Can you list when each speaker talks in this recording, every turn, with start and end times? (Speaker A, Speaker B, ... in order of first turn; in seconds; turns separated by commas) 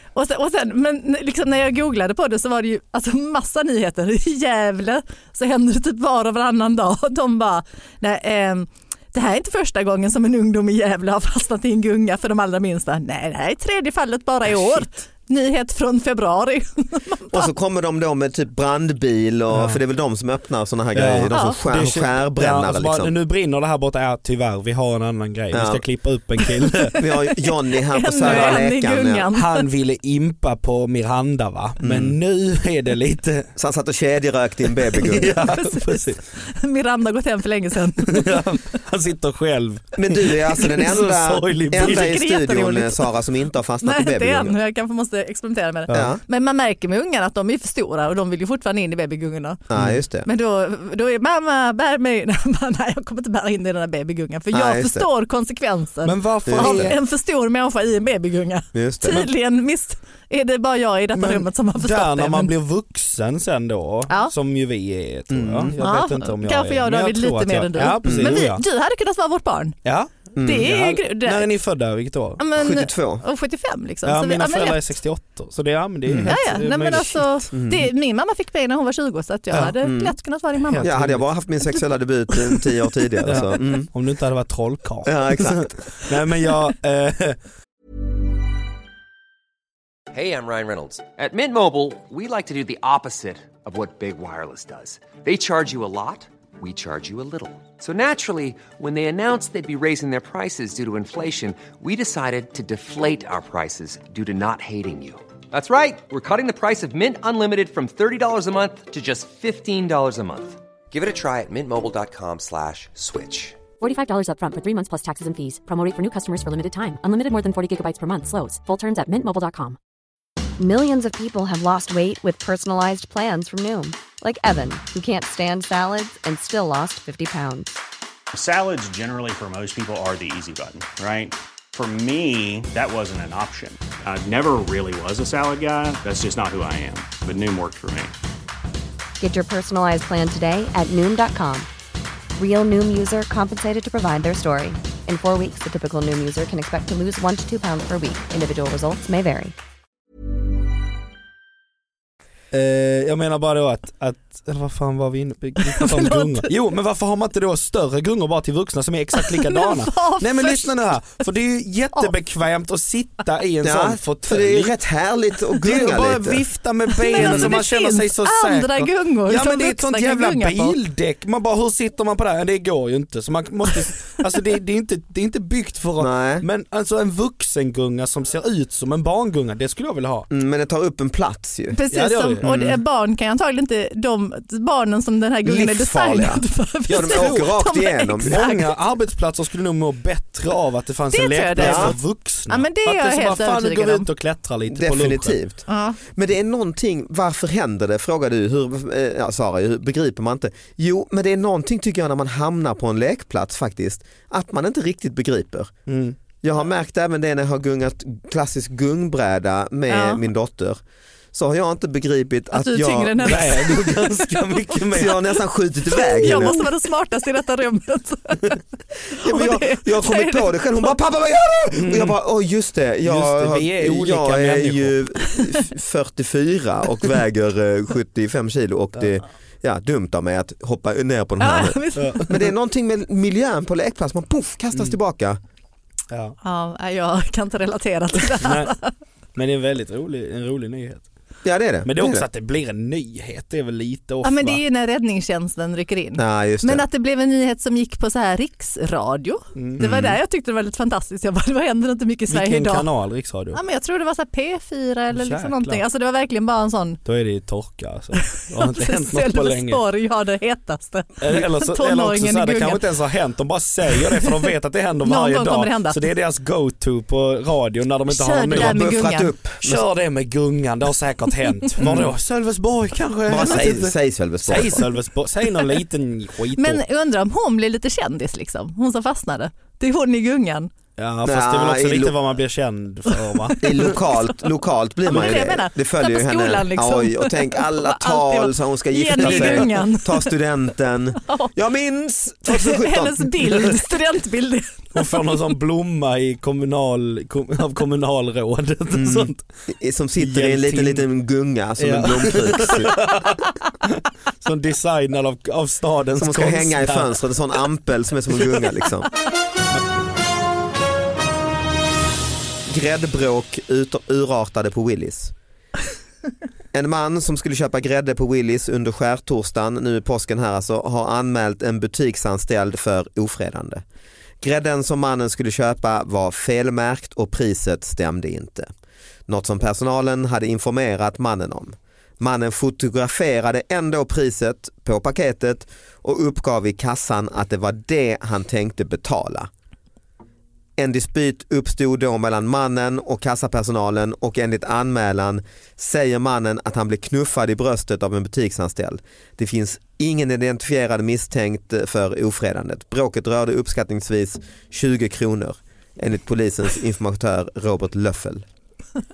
Speaker A: 0.1-17.5, Speaker B: 17.3-23.1, Speaker C: 19.5-19.8, Speaker C: 20.9-26.9, Speaker A: 21.3-21.6, Speaker B: 25.5-25.8, Speaker B: 27.0-29.2, Speaker A: 27.9-29.6, Speaker C: 28.2-28.6, Speaker C: 29.3-33.5, Speaker B: 31.8-32.2, Speaker B: 33.5-35.4, Speaker C: 35.0-36.2, Speaker A: 35.3-38.4, Speaker C: 38.0-42.1, Speaker B: 40.0-44.5, Speaker A: 41.8-43.1, Speaker A: 43.8-49.6, Speaker B: 45.9-46.2, Speaker B: 49.7-50.3, Speaker A: 50.2-62.5, Speaker B: 54.5-55.1, Speaker C: 56.0-57.0, Speaker B: 56.5-56.9, Speaker B: 58.7-59.2, Speaker C: 61.1-68.6, Speaker B: 65.3-65.7, Speaker A: 65.8-69.8, Speaker B: 68.0-68.4, Speaker C: 69.8-72.4, Speaker B: 70.3-70.7, Speaker A: 70.4-71.5, Speaker A: 72.4-74.8, Speaker B: 72.6-73.2, Speaker C: 74.0-77.3, Speaker B: 76.0-76.3, Speaker A: 76.2-80.9, Speaker B: 77.5-77.9, Speaker B: 79.7-80.1, Speaker C: 80.7-81.2, Speaker B: 80.8-83.9, Speaker C: 83.2-87.4, Speaker B: 85.0-85.7, Speaker D: 90.1-113.6, Speaker E: 113.8-119.8, Speaker F: 120.6-127.7, Speaker G: 128.3-138.1, Speaker F: 139.2-141.7, Speaker F: 142.4-149.5, Speaker C: 152.5-164.7, Speaker A: 155.6-156.5, Speaker A: 159.2-160.7, Speaker B: 163.6-166.4, Speaker C: 165.6-180.3, Speaker A: 166.9-170.8, Speaker B: 167.2-167.6, Speaker B: 176.0-176.4, Speaker B: 180.3-181.8, Speaker A: 181.7-188.7, Speaker C: 181.9-182.5, Speaker B: 182.4-182.8, Speaker B: 185.4-188.5, Speaker C: 186.9-187.5, Speaker C: 188.2-195.4, Speaker A: 191.1-192.0, Speaker B: 191.6-191.9, Speaker A: 192.5-194.1, Speaker B: 194.7-205.7, Speaker A: 195.7-196.0, Speaker C: 205.9-206.2, Speaker B: 206.4-210.8, Speaker A: 209.9-210.2, Speaker B: 211.3-213.5, Speaker A: 212.5-214.0, Speaker C: 213.2-215.2, Speaker A: 214.7-215.1, Speaker B: 214.9-216.6, Speaker A: 215.9-218.6, Speaker A: 219.1-220.9, Speaker B: 219.2-235.4, Speaker C: 221.7-222.2, Speaker C: 223.0-224.9, Speaker A: 231.4-232.4, Speaker C: 231.9-232.2, Speaker C: 236.1-236.4, Speaker A: 236.4-238.9, Speaker C: 238.3-238.7, Speaker C: 239.3-241.1, Speaker B: 241.4-242.2, Speaker C: 241.8-244.6, Speaker A: 244.2-252.8, Speaker B: 246.2-246.8, Speaker C: 249.6-249.8, Speaker B: 249.8-250.2, Speaker C: 252.3-253.6, Speaker A: 253.5-257.0, Speaker C: 255.1-255.8, Speaker C: 257.0-259.8, Speaker A: 258.3-262.8, Speaker C: 261.2-268.9, Speaker A: 265.0-266.0, Speaker A: 268.1-269.3, Speaker B: 268.5-269.8, Speaker C: 269.6-276.8, Speaker B: 271.8-272.1, Speaker B: 273.3-274.8, Speaker A: 276.6-280.7, Speaker C: 281.0-283.9, Speaker B: 281.2-282.1, Speaker A: 283.4-284.3, Speaker B: 283.6-293.7, Speaker A: 285.1-290.3, Speaker C: 289.2-289.7, Speaker A: 291.2-291.5, Speaker A: 292.5-295.4, Speaker C: 294.9-299.4, Speaker B: 298.9-302.9, Speaker C: 300.2-301.0, Speaker C: 301.8-307.2, Speaker B: 306.2-309.1, Speaker B: 312.7-315.3, Speaker B: 316.7-323.8, Speaker B: 324.4-328.7, Speaker B: 329.3-339.5, Speaker B: 340.8-358.4